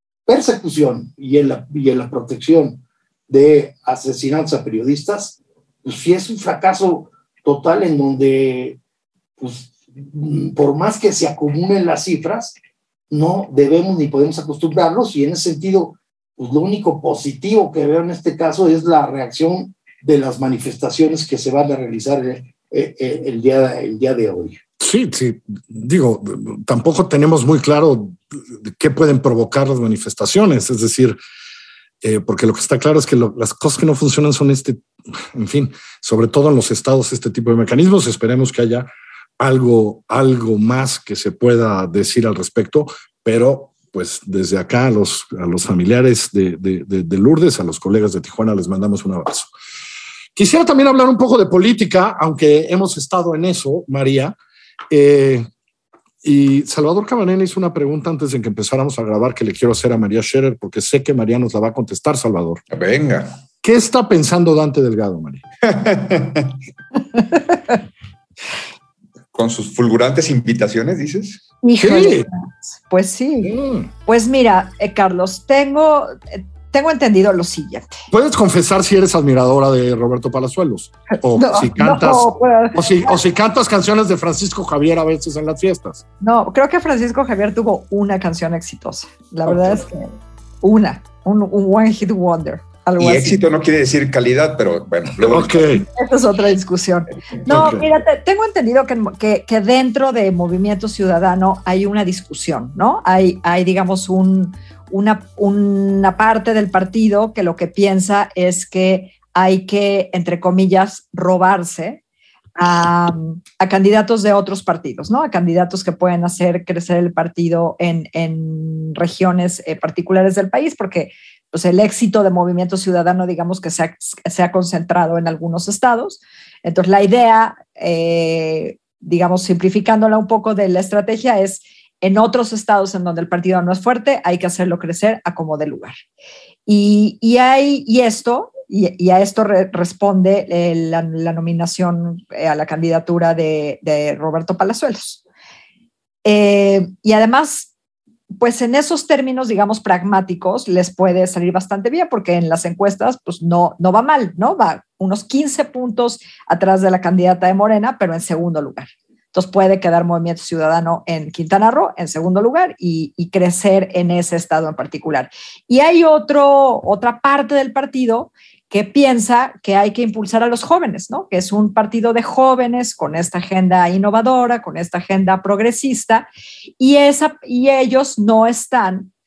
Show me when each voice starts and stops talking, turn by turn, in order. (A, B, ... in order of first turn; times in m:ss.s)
0:00.3-0:08.8 A
0:09.4-0:12.6 A
0:13.1-0:24.6 A
0:24.8-0:31.2 B
0:32.0-0:38.9 B
0:39.4-0:49.5 B
0:50.4-0:54.4 B
0:54.9-0:55.5 B
0:56.2-1:02.6 B
1:02.7-1:03.4 C
1:03.6-1:05.4 B
1:05.6-1:06.6 C
1:09.3-1:11.4 C
1:11.6-1:13.5 D
1:11.8-1:12.3 B
1:13.4-1:13.9 B
1:14.0-1:18.0 D
1:18.1-1:26.0 B
1:21.4-1:23.2 D
1:26.2-1:33.4 D
1:29.5-1:29.8 B
1:33.0-1:35.8 C
1:35.2-1:35.9 B
1:35.9-1:52.0 D
1:37.5-1:37.8 B
1:52.6-2:16.0 D
2:16.7-2:25.2 D
2:26.2-2:27.7 D
2:28.4-2:56.3 D
2:56.8-2:59.1 D